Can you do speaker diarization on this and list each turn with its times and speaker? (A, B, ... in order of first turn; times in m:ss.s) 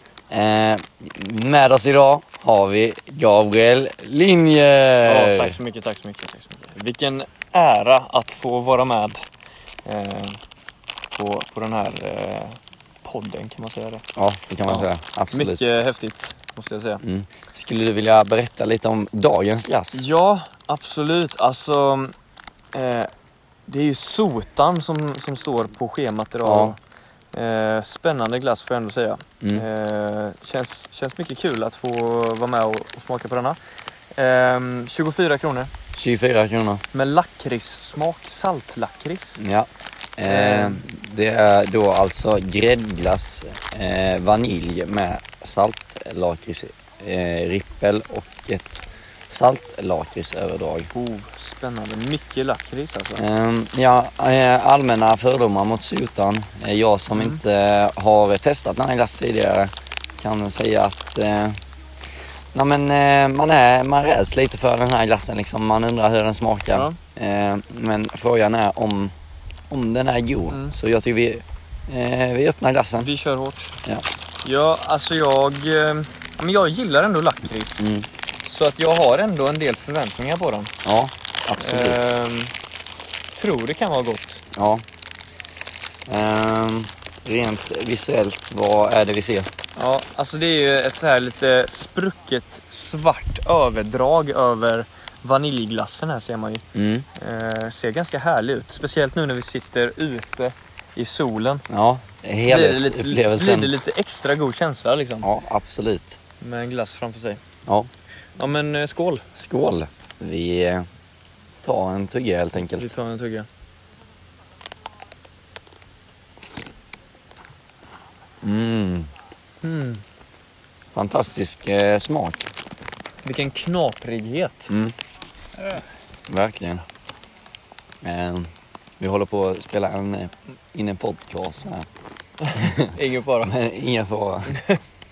0:00.3-0:05.6 A
0:05.1-0:09.2 B
0:09.8-0:10.4 B
0:11.1-0:14.0 B
0:14.2-0:15.6 A
0:14.6-0:17.0 B
0:17.0-0:20.0 A
0:19.9-0:22.1 B
0:22.7-0:23.1 B
0:23.7-0:26.8 B
0:26.4-0:26.8 A
0:27.3-0:33.6 B
0:29.4-0:29.7 A
0:34.2-0:35.7 B
0:36.0-0:36.8 A
0:36.9-0:39.4 B
0:39.4-0:50.9 A
0:40.2-0:40.8 B
0:50.9-0:53.2 B
0:53.2-1:01.6 A
1:02.5-1:09.1 A
1:09.7-1:13.1 A
1:13.0-1:13.7 B
1:14.4-1:17.9 B
1:17.8-1:18.1 A
1:18.4-1:20.7 B
1:20.8-1:22.1 A
1:21.6-1:22.5 B
1:23.4-1:24.4 B
1:24.6-1:24.8 A
1:26.1-1:29.5 A
1:29.8-1:36.6 B
1:36.7-1:37.1 A
1:37.2-1:41.6 B
1:41.7-1:43.8 A
1:42.5-1:45.3 B
1:45.2-1:46.2 A
1:46.4-1:47.4 B
1:48.4-1:49.2 B
1:49.4-1:50.9 A
1:51.6-1:52.9 A
1:52.6-1:53.5 B
1:58.4-1:59.1 A
1:59.6-2:00.0 B
2:01.0-2:02.4 A
2:03.2-2:04.7 B
2:06.3-2:06.8 A
2:08.0-2:08.5 A
2:09.0-2:11.9 A
2:12.4-2:13.5 B
2:12.6-2:14.6 A
2:14.5-2:14.8 B